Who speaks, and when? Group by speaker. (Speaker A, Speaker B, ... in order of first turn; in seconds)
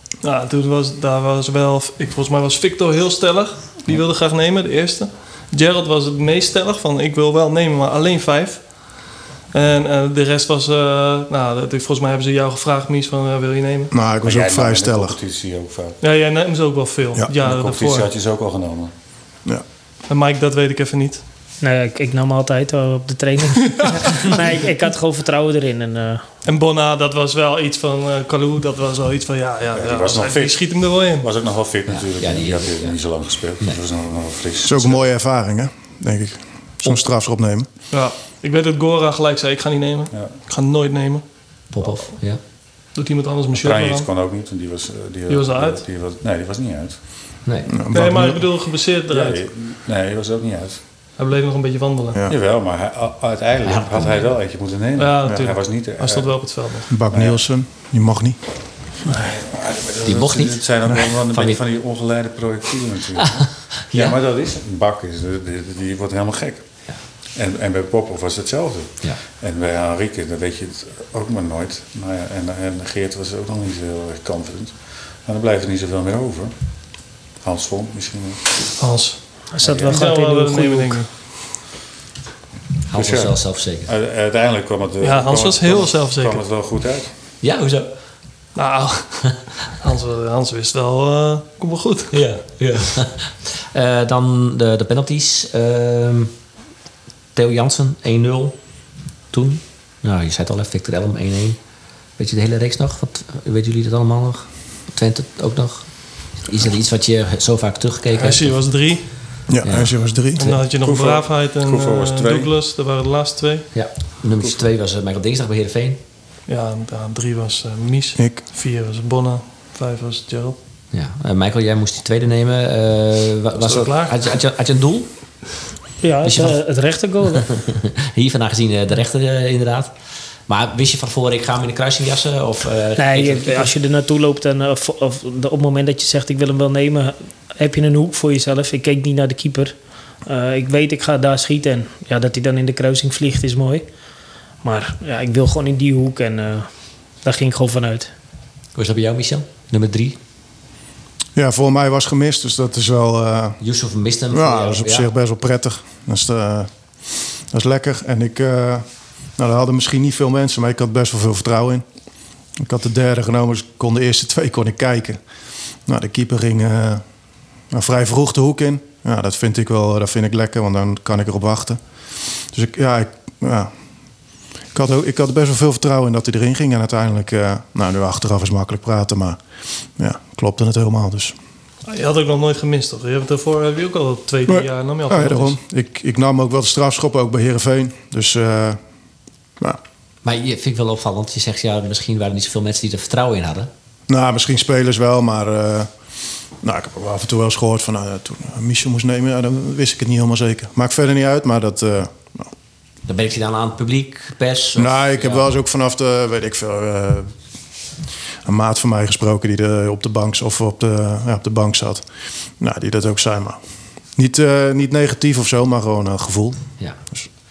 Speaker A: 0.2-8.9, 9.5-13.9, 16.0-18.1, 20.1-21.2, 26.4-31.3, 37.9-41.2, 42.9-44.1, 45.3-45.8, 47.9-49.4, 51.2-52.2, 55.0-56.9, 78.8-79.3, 79.8-81.3, 85.0-86.4, 88.5-92.2, 108.1-109.5, 110.4-113.7, 116.5-120.5, 123.6-124.3, 181.8-185.5
Speaker B: 13.9-15.2, 34.6-37.7, 47.7-48.5, 56.9-58.4, 109.5-110.5, 118.2-118.4, 151.3-153.6, 154.3-156.7, 157.5-158.8, 159.4-161.8, 162.6-165.2, 165.8-167.0, 167.7-171.8, 172.5-173.7, 174.7-179.4, 180.0-181.3, 184.4-188.8, 194.1-195.9, 196.6-202.5, 204.7-207.3, 208.4-212.0, 212.6-213.6, 214.1-216.6
Speaker C: 14.2-16.0, 17.4-18.9, 29.7-35.0, 40.1-40.4, 43.5-47.0, 49.1-50.8, 52.3-56.3, 57.1-57.4, 59.0-66.6, 67.3-76.5, 77.4-78.4, 79.6-80.0, 82.9-87.1, 110.7-112.5
Speaker D: 21.6-26.2, 79.5-81.0, 126.0-127.5, 133.0-139.7, 140.2-143.8, 144.6-146.7, 147.2-148.1
Speaker E: 31.9-33.0, 41.7-42.4, 47.4-47.8, 53.6-54.3, 60.0-61.6, 63.2-64.2, 82.9-83.9, 87.4-87.9, 92.1-96.3, 97.3-98.6, 99.3-101.6, 102.2-108.5, 109.6-110.6, 113.7-116.0, 120.9-125.1, 126.2-126.6, 127.3-129.9, 130.5-133.7, 148.7-150.2, 153.6-155.1, 190.2-193.7, 203.1-205.4